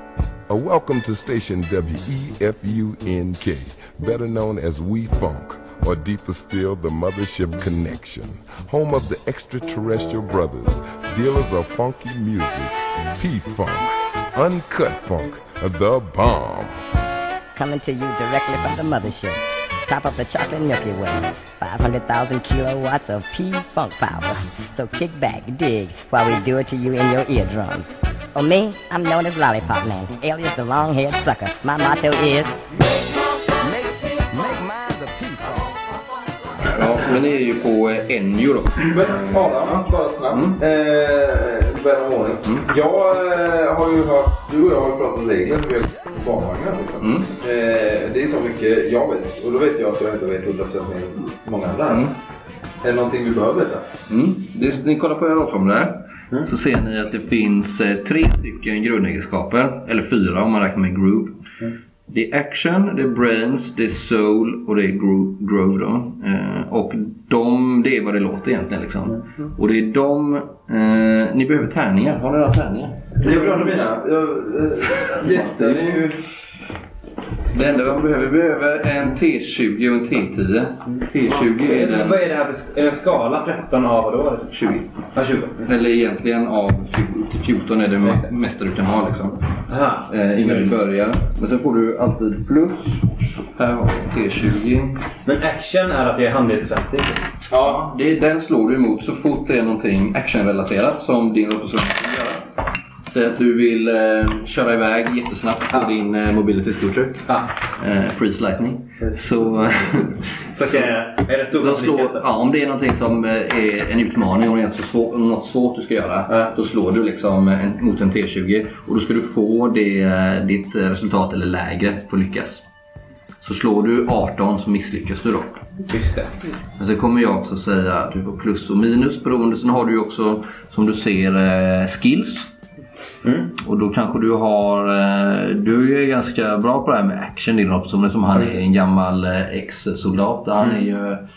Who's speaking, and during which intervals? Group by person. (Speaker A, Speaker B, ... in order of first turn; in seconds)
Speaker A: 0.5-16.8, 33.6-35.9
Speaker B: 17.5-32.6
Speaker C: 36.7-40.6, 47.0-47.3, 51.9-52.1, 54.1-61.4, 62.1-73.2, 74.9-76.3, 77.5-82.2, 84.5-84.9, 85.6-89.4, 90.1-95.0, 97.5-102.5, 103.1-110.9, 111.5-122.6, 123.4-125.5, 126.8-132.5, 133.6-141.2
Speaker D: 38.8-52.1, 52.8-53.9, 73.2-76.0, 97.5-97.8
Speaker E: 81.3-84.5, 85.1-85.6, 89.7-90.7, 95.2-97.2, 107.3-107.5, 110.5-112.2, 125.9-126.3, 133.2-133.5